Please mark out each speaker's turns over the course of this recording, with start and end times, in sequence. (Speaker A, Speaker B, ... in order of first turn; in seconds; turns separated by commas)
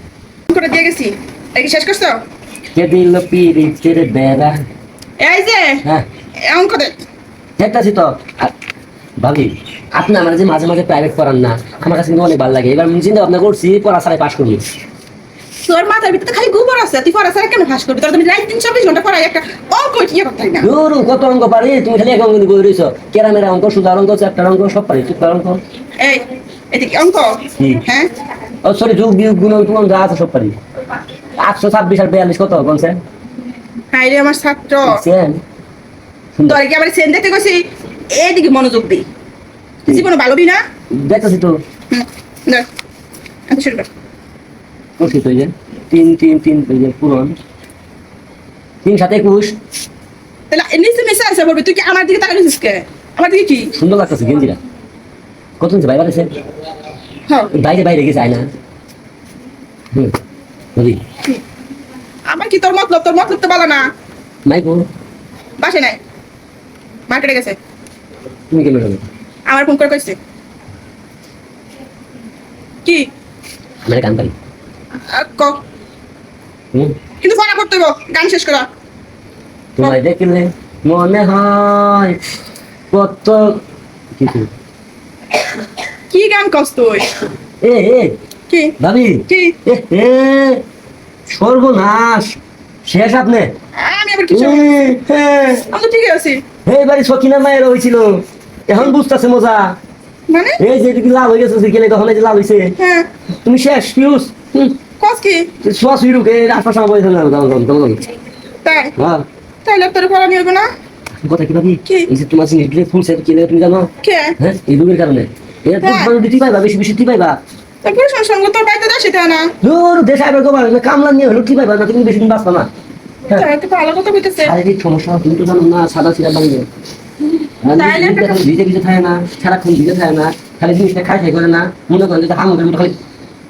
Speaker A: 0.5-2.2, Speaker B: 2.8-4.6, Speaker A: 5.2-5.8, Speaker A: 6.4-7.0, Speaker B: 7.6-8.5, Speaker B: 9.2-14.6, Speaker A: 15.6-20.7, Speaker B: 20.6-25.6, Speaker A: 26.0-28.1, Speaker B: 27.6-27.8, Speaker B: 28.6-30.6, Speaker B: 31.4-33.0, Speaker A: 33.9-35.0, Speaker B: 34.8-35.4, Speaker B: 36.4-36.6, Speaker A: 36.5-39.1, Speaker A: 39.9-40.6, Speaker B: 40.9-41.5, Speaker A: 41.9-42.7, Speaker A: 43.5-43.9, Speaker B: 45.0-47.4, Speaker B: 48.8-49.6, Speaker A: 50.5-53.7, Speaker B: 53.8-54.6, Speaker B: 55.6-56.3, Speaker A: 57.3-57.5, Speaker B: 57.5-58.5, Speaker B: 60.8-61.0, Speaker A: 62.3-63.9, Speaker B: 64.5-64.8, Speaker A: 65.6-66.0, Speaker A: 67.1-67.6, Speaker B: 68.5-69.0, Speaker A: 69.5-70.2, Speaker A: 72.8-73.1, Speaker B: 73.8-74.3, Speaker A: 75.1-75.6, Speaker A: 77.2-78.7, Speaker B: 79.8-82.2, Speaker B: 82.9-83.6, Speaker B: 84.2-84.5, Speaker A: 86.1-87.2, Speaker B: 87.6-88.2, Speaker A: 88.5-88.8, Speaker B: 88.8-90.6, Speaker A: 89.3-89.6, Speaker B: 91.3-93.5, Speaker A: 93.8-94.7, Speaker B: 94.3-95.7, Speaker A: 95.7-96.4, Speaker B: 96.7-99.8, Speaker A: 100.3-100.6, Speaker B: 100.6-102.7, Speaker A: 102.8-103.1, Speaker B: 103.5-104.8, Speaker A: 105.0-105.5, Speaker B: 105.6-108.1, Speaker A: 108.6-108.9, Speaker B: 109.0-109.2, Speaker A: 109.7-110.7, Speaker B: 111.2-117.4, Speaker A: 114.0-114.4, Speaker A: 115.8-116.1, Speaker A: 117.8-119.5, Speaker B: 119.6-122.7, Speaker A: 123.3-124.5, Speaker B: 124.4-126.7, Speaker B: 127.6-133.0, Speaker A: 127.7-128.5